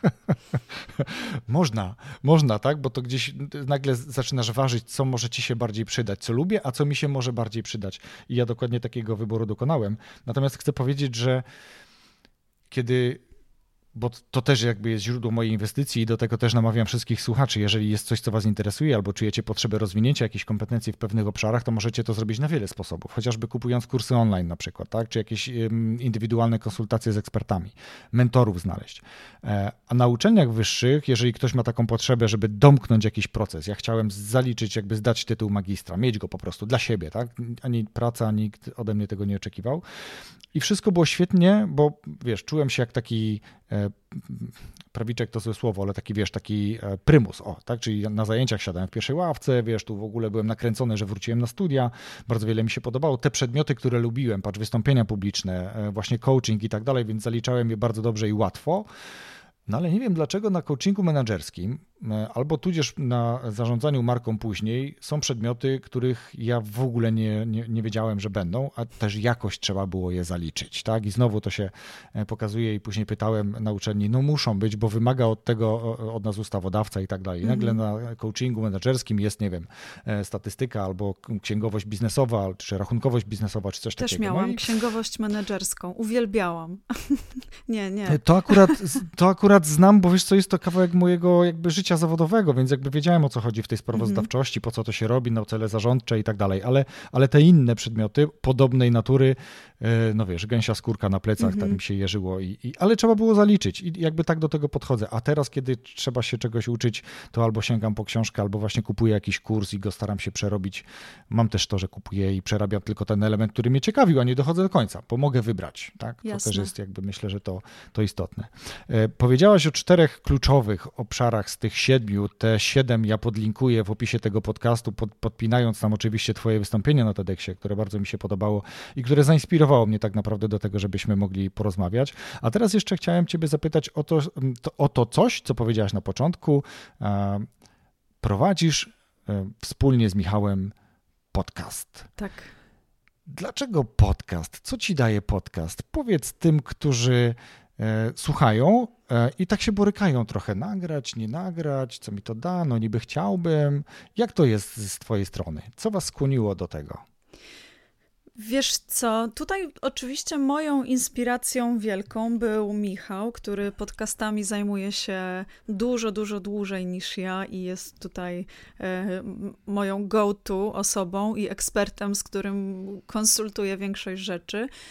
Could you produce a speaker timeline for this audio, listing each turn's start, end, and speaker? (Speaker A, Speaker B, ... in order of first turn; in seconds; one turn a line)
Speaker A: 0.8-11.4
Speaker A: 12.7-13.2
Speaker A: 13.9-39.8
Speaker A: 40.5-58.9
Speaker A: 59.7-84.6
Speaker B: 77.4-77.8
Speaker B: 84.0-88.8
Speaker A: 88.1-137.5
Speaker B: 93.9-94.3
Speaker B: 101.4-101.8
Speaker B: 116.2-116.7
Speaker A: 138.2-140.7
Speaker A: 141.3-142.1
Speaker B: 142.2-142.5
Speaker A: 143.3-157.0
Speaker B: 158.4-174.7